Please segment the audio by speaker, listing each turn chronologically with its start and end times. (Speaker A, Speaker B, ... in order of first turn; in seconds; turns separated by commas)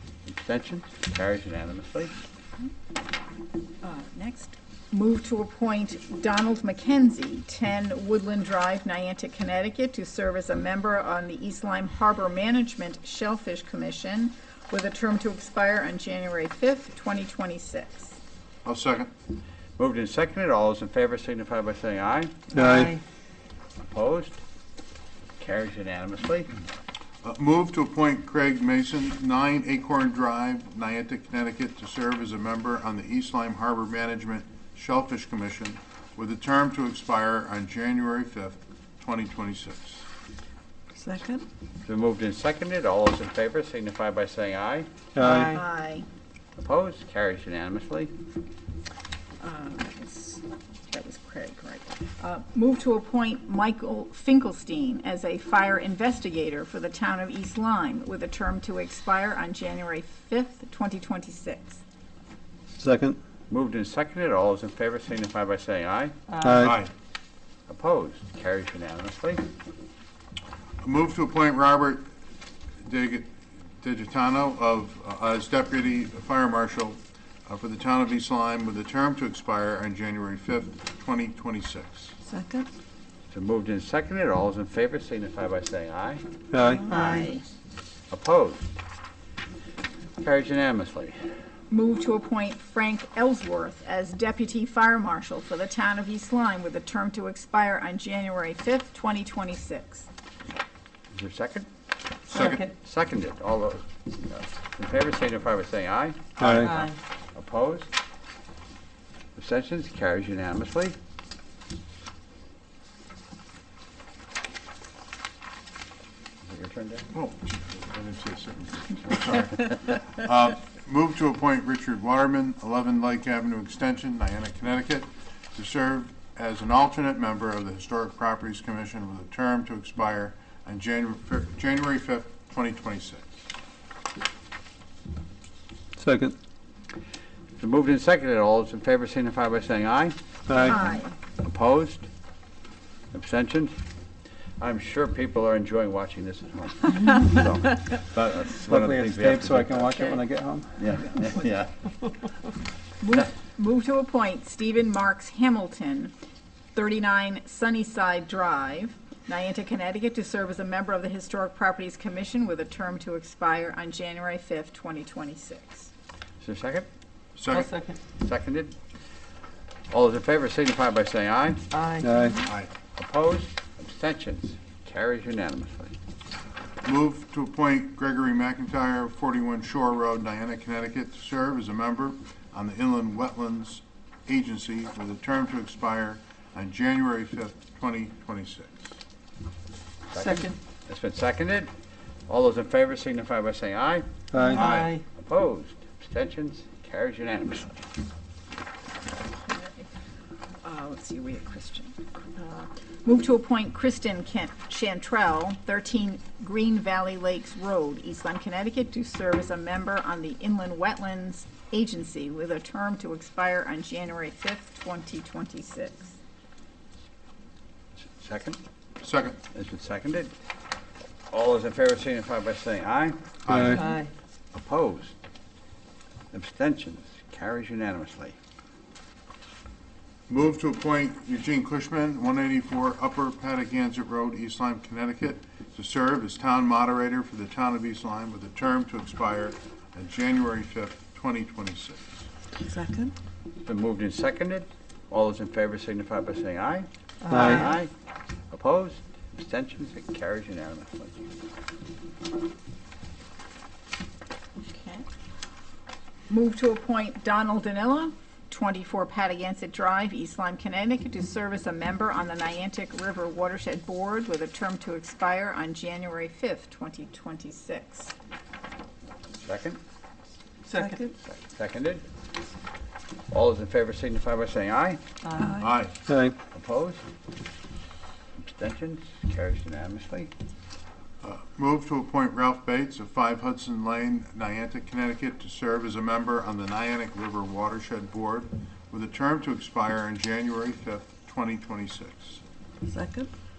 Speaker A: 0.3-2.1, Speaker B: 3.8-18.2, Speaker C: 18.6-19.1, Speaker A: 19.8-22.6, Speaker D: 22.5-22.9, Speaker E: 22.5-23.0, Speaker A: 23.8-24.4, Speaker A: 25.4-26.5, Speaker C: 27.2-40.0, Speaker E: 41.0-41.4, Speaker A: 41.9-44.9, Speaker D: 45.1-45.6, Speaker E: 45.2-45.6, Speaker B: 45.5-46.1, Speaker A: 46.6-48.1, Speaker B: 49.4-61.8, Speaker D: 62.8-63.2, Speaker A: 63.5-66.1, Speaker E: 66.3-66.6, Speaker D: 66.4-66.8, Speaker C: 66.6-66.9, Speaker A: 67.7-69.4, Speaker C: 70.8-72.0, Speaker C: 72.8-82.1, Speaker E: 82.3-82.7, Speaker A: 83.3-86.2, Speaker D: 86.5-86.9, Speaker B: 86.6-87.4, Speaker E: 86.9-87.3, Speaker A: 88.1-88.7, Speaker A: 90.2-91.2, Speaker B: 91.7-100.1, Speaker A: 101.1-101.7, Speaker E: 102.3-102.7, Speaker C: 102.3-102.6, Speaker A: 102.3-107.9, Speaker D: 106.4-106.7, Speaker E: 106.4-107.0, Speaker A: 109.4-111.0, Speaker A: 116.4-117.1, Speaker C: 117.1-133.2, Speaker D: 136.0-136.3, Speaker A: 137.6-142.1, Speaker D: 140.5-140.8, Speaker B: 140.5-141.2, Speaker A: 143.1-143.8, Speaker A: 144.6-150.2, Speaker D: 148.7-150.7, Speaker A: 150.8-151.7, Speaker B: 153.0-156.1, Speaker B: 156.8-165.9, Speaker A: 166.4-166.9, Speaker C: 167.4-167.7, Speaker E: 167.5-168.0, Speaker A: 168.2-168.8, Speaker A: 169.9-171.6, Speaker E: 171.7-172.4, Speaker D: 172.0-172.4, Speaker C: 172.4-172.7, Speaker A: 173.0-175.9, Speaker C: 176.8-188.9, Speaker A: 190.1-191.7, Speaker E: 190.1-190.6, Speaker A: 192.3-197.8, Speaker D: 194.3-194.7, Speaker E: 194.4-195.0, Speaker C: 194.5-194.9, Speaker B: 199.5-199.9, Speaker B: 200.6-216.2, Speaker A: 218.0-218.6, Speaker C: 219.0-219.4, Speaker A: 219.5-220.3, Speaker A: 221.3-223.2, Speaker C: 223.5-223.8, Speaker D: 223.5-223.8, Speaker E: 223.7-224.1, Speaker A: 224.5-225.1, Speaker A: 226.3-228.3, Speaker C: 230.3-242.2, Speaker E: 242.6-243.1, Speaker A: 243.7-247.9, Speaker E: 247.2-247.8, Speaker D: 247.3-247.7, Speaker A: 248.5-251.3, Speaker B: 254.7-255.1, Speaker B: 256.3-268.1, Speaker A: 269.4-269.8, Speaker E: 270.7-271.1, Speaker A: 271.2-272.0, Speaker A: 273.3-275.0, Speaker E: 275.2-275.7, Speaker C: 275.6-275.9, Speaker D: 276.1-276.4, Speaker A: 276.5-277.0, Speaker A: 278.4-280.3, Speaker C: 281.2-292.4, Speaker E: 292.9-293.3